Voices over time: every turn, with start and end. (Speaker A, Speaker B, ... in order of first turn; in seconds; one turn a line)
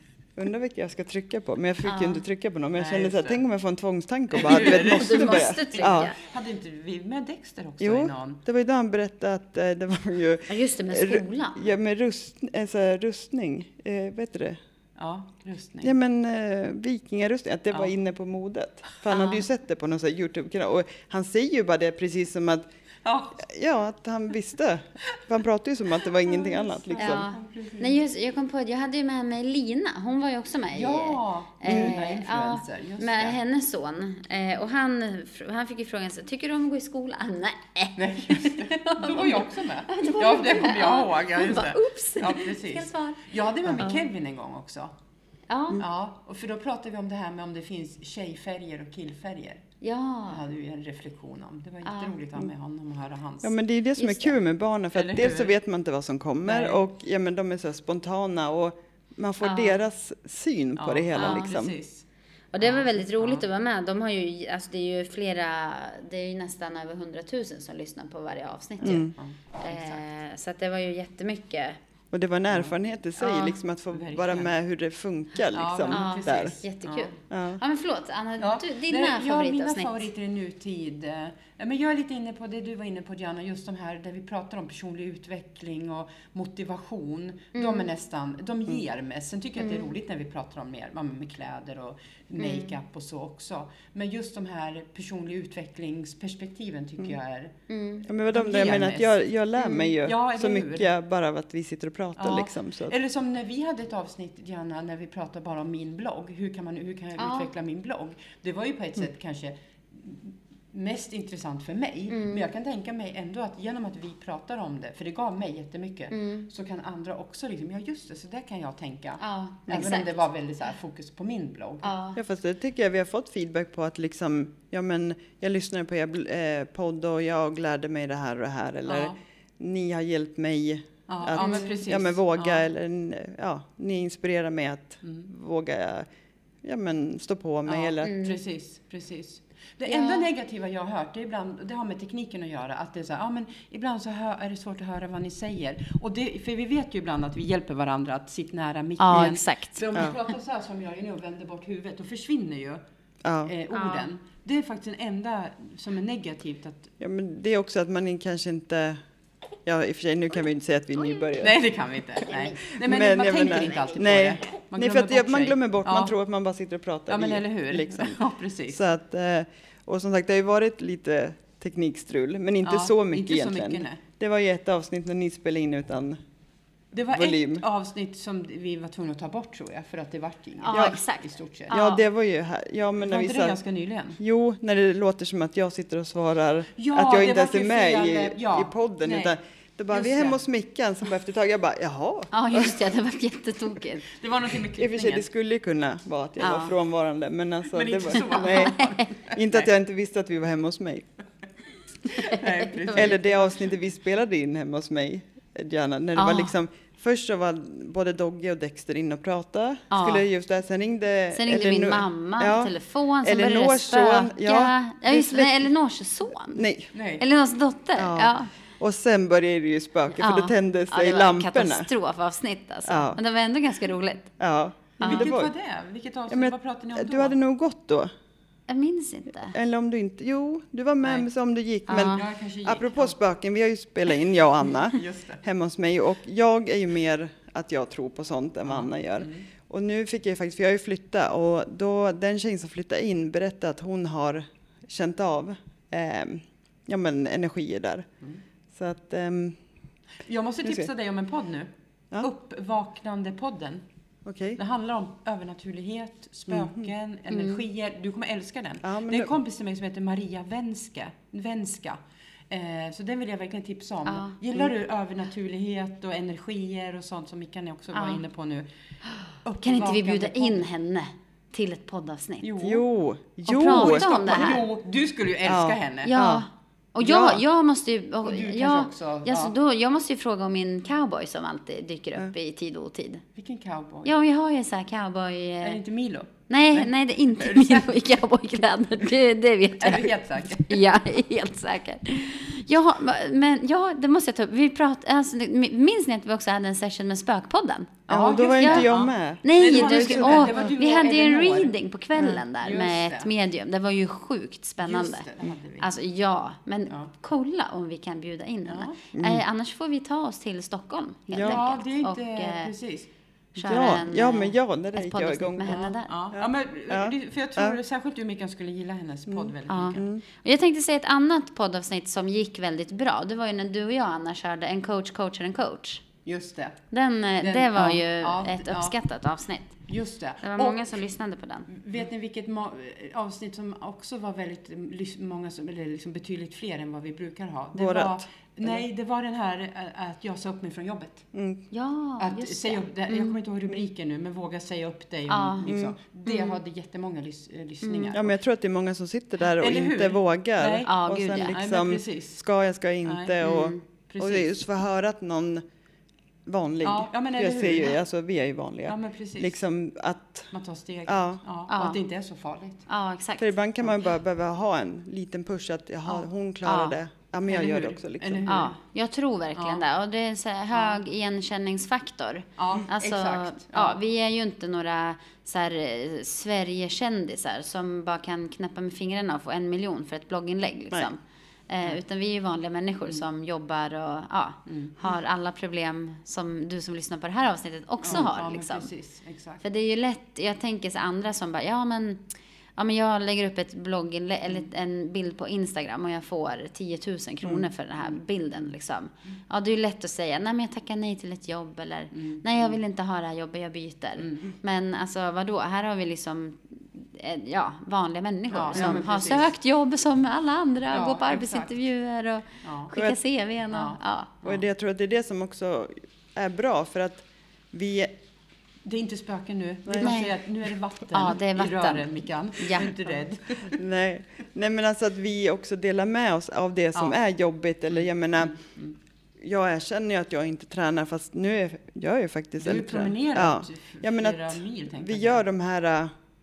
Speaker A: 0.4-6.1
Speaker B: 1.8-2.2
Speaker C: 2.7-3.4
Speaker C: 4.3-8.4
Speaker B: 4.4-6.2
Speaker A: 7.8-14.6
Speaker B: 10.5-11.7
Speaker C: 15.0-15.9
Speaker A: 15.8-22.7
Speaker B: 19.1-19.5
Speaker C: 23.1-23.4
Speaker A: 23.4-27.3
Speaker C: 26.2-28.0
Speaker B: 27.0-44.1
Speaker C: 30.7-33.4
Speaker A: 31.7-31.9
Speaker C: 38.0-44.9
Speaker B: 45.5-45.8
Speaker C: 45.8-49.6
Speaker B: 49.8-50.4
Speaker C: 50.3-53.5
Speaker B: 51.9-52.2
Speaker A: 53.4-61.7
Speaker B: 54.0-54.4
Speaker C: 54.9-55.6
Speaker C: 56.4-56.8
Speaker B: 59.4-59.8
Speaker C: 60.8-62.1
Speaker B: 61.1-61.5
Speaker B: 62.5-71.8
Speaker C: 62.6-63.5
Speaker A: 68.8-69.1
Speaker C: 68.8-70.0
Speaker A: 72.1-76.5
Speaker C: 72.5-72.8
Speaker B: 73.2-73.6
Speaker C: 73.9-74.5
Speaker C: 75.5-77.2
Speaker B: 75.9-80.0
Speaker A: 77.3-77.6
Speaker C: 78.4-97.5
Speaker B: 87.5-87.9
Speaker B: 89.6-89.9
Speaker B: 92.4-92.8
Speaker B: 97.7-98.1
Speaker A: 98.1-103.0
Speaker C: 98.3-100.9
Speaker C: 102.2-121.9
Speaker B: 107.2-107.5
Speaker B: 112.1-112.5
Speaker B: 116.1-116.5
Speaker B: 119.2-120.2
Speaker B: 121.8-122.2
Speaker A: 122.2-136.1
Speaker C: 128.9-129.2
Speaker C: 131.1-132.7
Speaker B: 131.4-131.7
Speaker C: 135.0-135.3
Speaker A: 136.6-138.2
Speaker C: 137.7-152.8
Speaker B: 138.0-138.4
Speaker B: 139.9-140.3
Speaker B: 149.0-150.0
Speaker A: 153.2-153.5
Speaker C: 153.4-156.9
Speaker B: 153.7-154.1
Speaker A: 157.0-159.0
Speaker A: 159.7-161.6
Speaker C: 161.4-166.2
Speaker B: 162.3-162.8
Speaker A: 162.8-176.2
Speaker B: 163.3-164.0
Speaker C: 167.1-168.8
Speaker C: 172.6-174.0
Speaker C: 176.9-181.8
Speaker A: 177.1-177.6
Speaker B: 180.6-182.0
Speaker A: 180.7-181.0
Speaker A: 181.7-183.6
Speaker C: 183.0-184.2
Speaker A: 184.2-192.8
Speaker C: 186.8-189.4
Speaker C: 189.9-190.4
Speaker B: 192.3-194.1
Speaker C: 194.1-195.3
Speaker A: 194.8-201.1
Speaker B: 196.4-196.8
Speaker C: 197.7-199.7
Speaker B: 198.2-198.9
Speaker C: 202.1-203.6
Speaker B: 202.2-203.2
Speaker A: 202.9-215.7
Speaker B: 206.2-206.5
Speaker B: 209.9-210.2
Speaker B: 211.3-216.7
Speaker A: 216.5-216.9
Speaker C: 216.9-217.2
Speaker B: 217.2-218.5
Speaker A: 218.0-221.9
Speaker B: 220.2-224.4
Speaker A: 222.9-223.2
Speaker A: 224.4-225.5
Speaker B: 225.0-225.3
Speaker C: 225.0-227.4
Speaker A: 226.3-228.1
Speaker B: 228.7-229.6
Speaker A: 229.5-248.1
Speaker B: 231.9-232.2
Speaker C: 232.1-233.2
Speaker C: 234.7-235.4
Speaker C: 238.7-239.5
Speaker A: 248.7-249.6
Speaker C: 250.2-253.8
Speaker A: 254.2-254.6
Speaker C: 254.6-268.7
Speaker A: 256.5-256.9
Speaker B: 257.3-257.6
Speaker A: 258.8-259.3
Speaker B: 264.1-264.4
Speaker B: 267.9-268.2
Speaker C: 269.4-270.7
Speaker B: 269.6-272.5
Speaker C: 272.4-272.9
Speaker A: 272.6-274.1
Speaker B: 273.5-274.7
Speaker C: 273.6-276.1
Speaker A: 275.5-276.4
Speaker B: 276.1-283.2
Speaker A: 277.0-277.4
Speaker C: 278.2-279.5
Speaker C: 283.4-284.1
Speaker B: 284.1-285.8
Speaker C: 285.6-288.0
Speaker B: 286.5-298.0
Speaker C: 289.8-290.8
Speaker C: 298.1-301.7
Speaker A: 298.1-300.6
Speaker B: 298.6-298.9
Speaker B: 299.4-305.3
Speaker A: 302.2-302.4
Speaker C: 302.6-303.3
Speaker C: 304.8-305.9
Speaker B: 305.8-312.7
Speaker C: 308.7-309.0
Speaker A: 309.1-309.4
Speaker A: 311.3-311.6
Speaker C: 311.4-313.1
Speaker B: 313.6-316.1
Speaker A: 313.6-315.8
Speaker C: 315.6-320.0
Speaker A: 316.3-317.8
Speaker A: 319.3-320.2
Speaker B: 319.7-326.0
Speaker C: 326.3-326.8
Speaker B: 326.9-329.8
Speaker C: 327.4-329.0
Speaker C: 329.9-330.9
Speaker B: 330.4-331.7
Speaker C: 331.7-341.3
Speaker A: 337.8-338.7
Speaker A: 341.3-341.6
Speaker B: 341.7-343.4
Speaker C: 342.2-348.4
Speaker B: 345.3-345.7
Speaker A: 345.6-345.9
Speaker B: 346.3-346.6
Speaker B: 347.8-348.1
Speaker A: 348.1-355.6
Speaker C: 349.6-352.4
Speaker B: 350.9-351.6
Speaker C: 353.1-353.4
Speaker B: 353.4-353.8
Speaker C: 354.1-354.5
Speaker A: 356.5-360.5
Speaker C: 356.8-358.0
Speaker C: 358.9-359.6
Speaker C: 360.5-362.9
Speaker A: 361.1-361.4
Speaker B: 361.7-362.0
Speaker B: 362.9-363.6
Speaker A: 363.4-368.5
Speaker B: 366.1-367.0
Speaker C: 367.5-368.8
Speaker B: 368.5-388.9
Speaker C: 369.6-369.8
Speaker C: 370.7-371.0
Speaker C: 372.6-374.0
Speaker C: 384.7-385.0
Speaker C: 388.0-389.6
Speaker B: 389.6-392.2
Speaker B: 392.8-414.5
Speaker C: 398.0-398.7
Speaker C: 402.1-402.8
Speaker C: 404.2-404.5
Speaker C: 408.5-409.5
Speaker C: 410.9-411.7
Speaker C: 412.6-412.9
Speaker C: 413.7-414.6
Speaker A: 414.4-418.1
Speaker C: 418.9-423.8
Speaker A: 419.9-420.1
Speaker B: 420.0-420.4
Speaker B: 421.1-422.9
Speaker A: 423.7-428.6
Speaker C: 427.9-428.9
Speaker A: 429.4-436.1
Speaker C: 432.6-435.4